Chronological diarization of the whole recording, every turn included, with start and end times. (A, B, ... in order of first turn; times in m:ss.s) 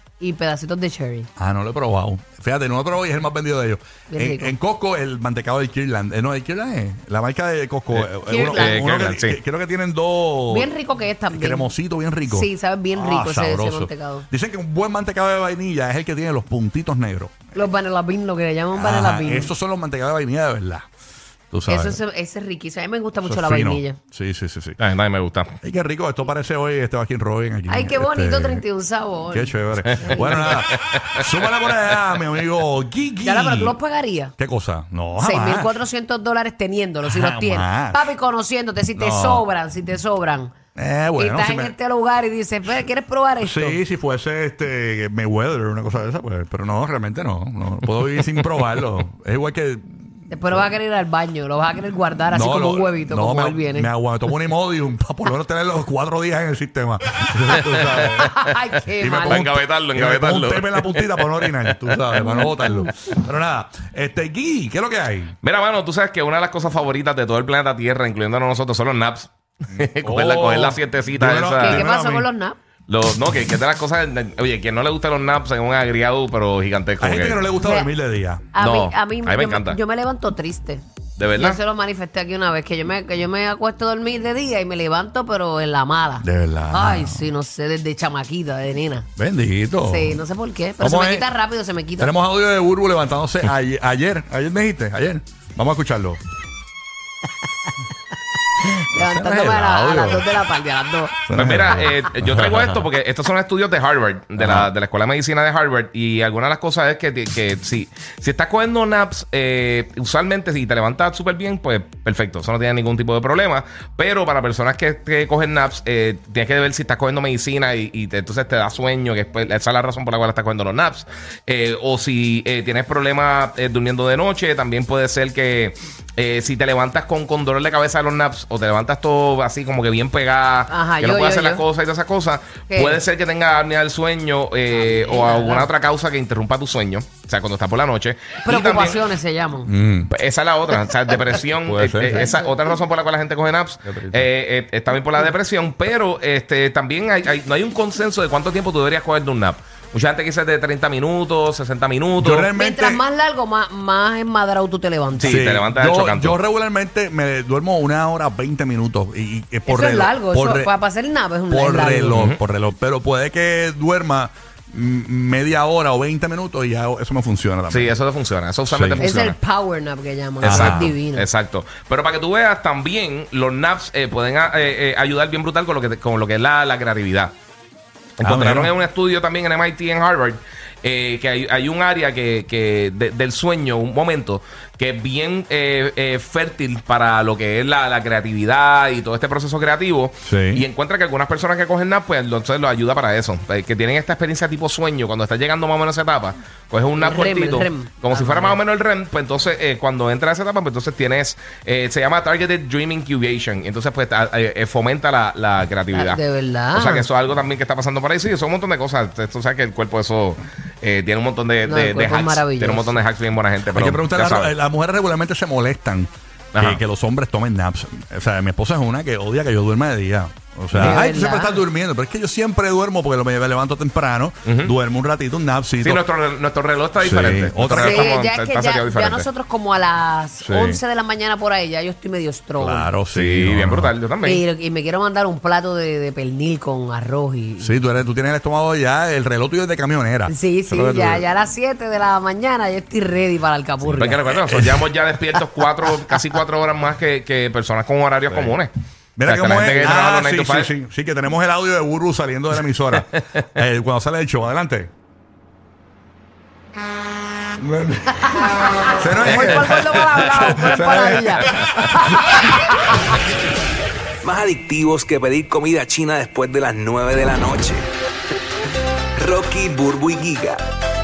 0:00.2-0:01.3 A
0:01.4-0:10.7 B
0:04.1-0:04.5 A
0:07.9-0:09.4 C
0:08.2-0:08.8 A
0:10.5-0:11.7 A
0:11.3-0:17.7 B
0:12.2-0:14.3 A
0:17.5-0:19.5 A
0:18.7-0:20.9 B
0:21.5-0:22.0 B
0:21.7-0:24.0 A
0:23.2-0:24.8 B
0:24.8-0:25.5 C
0:25.6-0:28.6 B
0:27.7-0:30.5 A
0:29.3-0:33.8 B
0:30.0-0:31.6 C
0:33.2-0:34.3 A
0:34.4-0:35.8 B
0:35.2-0:40.5 A
0:37.0-0:38.1 B
0:38.9-0:39.4 B
0:40.7-0:41.7 B
0:41.2-0:43.8 A
0:43.4-0:50.7 B
0:48.1-0:48.8 C
0:50.3-0:53.9 A
0:52.3-1:05.4 B
0:57.6-0:58.3 C
0:58.0-0:59.5 A
0:59.2-1:02.9 C
1:05.4-1:11.8 C
1:09.7-1:12.3 B
1:11.6-1:12.6 A
1:12.9-1:17.4 C
1:17.0-1:18.5 B
1:17.6-1:17.9 A
1:18.5-1:20.8 A
1:18.6-1:19.8 C
1:21.2-1:21.6 C
1:21.4-1:29.1 A
1:26.2-1:27.3 B
1:29.2-1:30.2 B
1:29.8-1:32.1 A
1:30.8-1:31.3 B
1:32.0-1:36.2 B
1:38.7-1:40.3 B
1:38.8-1:41.2 A
1:41.2-1:42.8 B
1:41.3-2:19.0 C
1:44.4-1:44.7 B
2:10.7-2:11.6 A
2:12.7-2:13.0 A
2:14.7-2:15.7 A
2:18.4-2:19.7 A
2:19.6-2:20.1 B
2:20.1-2:32.5 C
2:21.6-2:22.3 B
2:23.8-2:24.3 B
2:32.2-2:33.0 B
2:32.5-2:35.5 A
2:35.2-2:36.4 C
2:35.2-2:40.7 B
2:39.6-2:42.2 A
2:41.5-2:47.9 B
2:47.7-2:49.4 C
2:48.7-2:49.0 B
2:49.0-2:51.3 A
2:50.4-2:57.3 C
2:50.4-2:51.0 B
2:58.2-3:26.2 C
2:58.2-2:58.7 B
3:10.2-3:10.6 B
3:17.0-3:18.6 A
3:25.9-3:27.1 A
3:26.7-3:34.5 C
3:31.6-3:33.0 A
3:33.7-3:46.0 B
3:36.5-3:36.8 C
3:40.7-3:41.0 C
3:40.8-3:41.6 A
3:44.4-3:44.7 C
3:45.8-3:49.3 C
3:47.0-3:48.1 B
3:47.8-3:52.9 A
3:50.4-3:50.8 B
3:52.6-3:53.9 B
3:53.1-3:54.4 C
3:54.2-3:57.8 A
3:57.6-4:01.2 B
4:00.3-4:04.3 A
4:03.9-4:08.7 C
4:04.3-4:04.8 B
4:08.3-4:08.6 B
4:09.2-4:14.9 B
4:09.2-4:10.7 C
4:17.6-4:22.4 B
4:18.2-4:23.2 A
4:19.2-4:20.6 C
4:24.2-4:27.8 D
4:29.2-4:30.6 D